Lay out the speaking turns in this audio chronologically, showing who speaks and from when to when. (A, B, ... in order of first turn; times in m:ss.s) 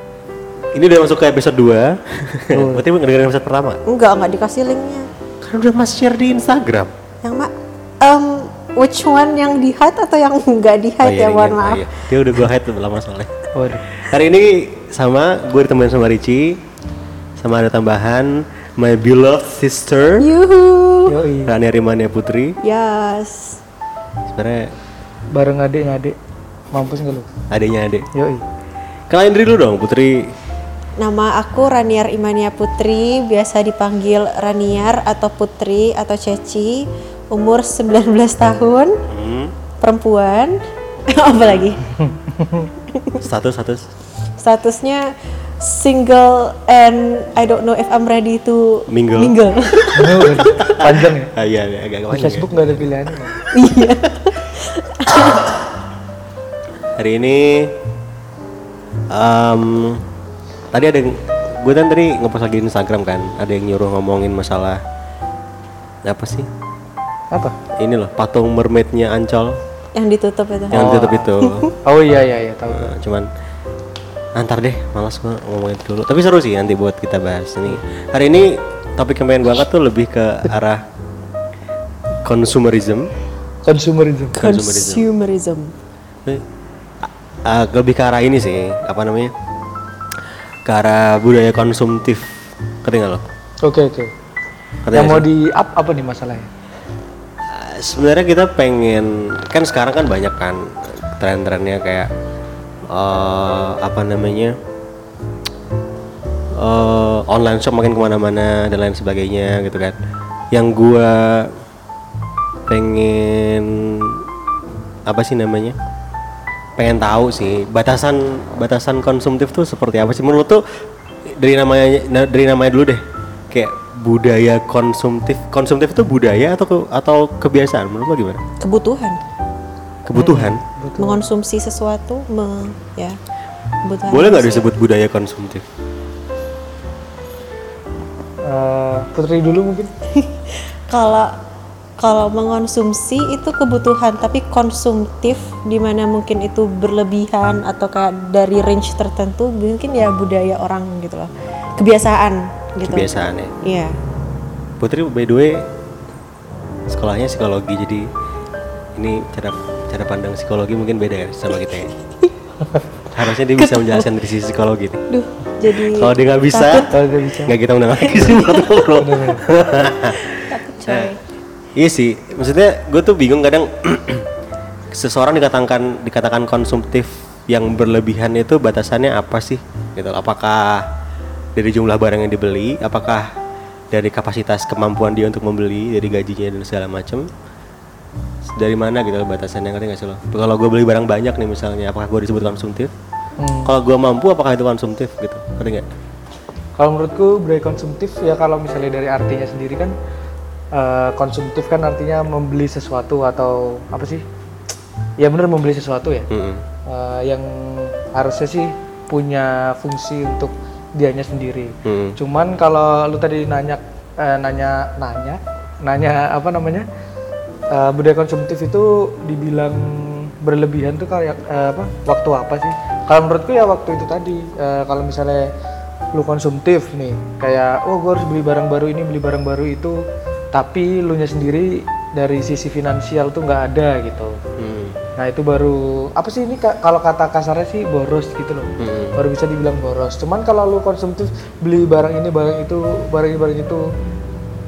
0:00.7-0:03.8 A
0:02.5-0:02.8 B
0:03.9-0:05.1 C
0:05.4-0:06.9 A
0:07.2-0:11.9 C
0:11.0-0:13.3 A
0:13.5-0:13.9 B
0:13.9-0:16.6 A
0:17.4-0:20.3 A
0:20.2-0:21.2 C
0:21.1-0:21.5 B
0:21.5-0:22.6 A
0:22.6-0:23.6 C
0:24.3-0:24.7 A
0:25.3-0:26.2 B
0:26.7-0:27.3 B
0:27.5-0:28.1 A
0:28.1-0:28.4 B
0:29.1-0:30.3 A
0:31.0-0:39.0 C
0:39.1-0:39.6 A
0:39.8-0:41.8 C
0:42.0-0:42.7 B
0:42.9-0:43.2 C
0:43.2-0:43.9 A
0:44.4-0:50.4 C
0:48.9-0:49.4 A
0:49.9-0:51.3 B
0:50.2-0:52.5 A
0:52.1-0:53.4 B
0:53.5-0:55.5 C
0:57.0-0:57.8 A
0:59.1-1:00.1 A
1:00.7-1:04.8 A
1:06.0-1:06.5 A
1:07.8-1:09.6 A
1:10.0-1:11.7 C
1:10.7-1:11.7 A
1:10.7-1:11.3 B
1:11.8-1:12.9 B
1:12.7-1:13.3 A
1:14.4-1:20.8 A
1:22.2-1:23.1 A
1:23.6-1:24.4 B
1:24.4-1:25.1 A
1:24.4-1:25.7 C
1:27.0-1:29.3 A
1:30.6-1:33.3 A
1:33.6-1:34.1 B
1:34.9-1:35.3 A
1:34.9-1:36.5 B
1:37.5-1:42.1 A
1:42.9-1:44.6 A
1:46.6-1:50.0 A
1:50.5-1:51.6 A
1:52.7-1:54.3 A
1:55.1-1:55.8 A
1:56.8-2:00.6 A
2:01.3-2:08.4 A
2:08.6-2:09.2 C
2:10.1-2:10.6 A
2:10.2-2:11.3 B
2:11.0-2:13.2 C
2:13.8-2:14.7 C
2:14.1-2:15.7 A
2:18.5-2:19.9 B
2:20.1-2:21.4 C
2:22.0-2:34.0 C
2:32.9-2:33.5 A
2:34.8-2:35.7 A
2:36.9-2:38.1 A
2:39.0-2:41.9 A
2:43.1-2:45.0 A
2:43.6-2:44.1 C
2:45.1-2:46.9 C
2:45.8-2:46.9 A
2:46.9-2:47.6 B
2:47.4-2:51.1 A
2:48.0-2:48.8 C
2:49.0-2:49.4 B
2:50.3-2:51.2 C
2:51.8-2:54.3 A
2:54.9-3:00.9 A
3:01.6-3:03.3 A
3:03.9-3:07.3 A
3:08.4-3:12.9 A
3:13.4-3:13.7 B
3:13.6-3:15.8 A
3:16.8-3:20.0 B
3:20.7-3:24.2 B
3:25.2-3:26.3 B
3:26.3-3:26.6 A
3:26.9-3:36.9 B
3:31.8-3:32.2 A
3:37.7-3:45.5 B
3:46.1-3:50.0 B
3:50.5-3:54.4 B
3:54.6-3:55.0 A
3:55.2-4:03.9 B
3:58.8-3:59.2 A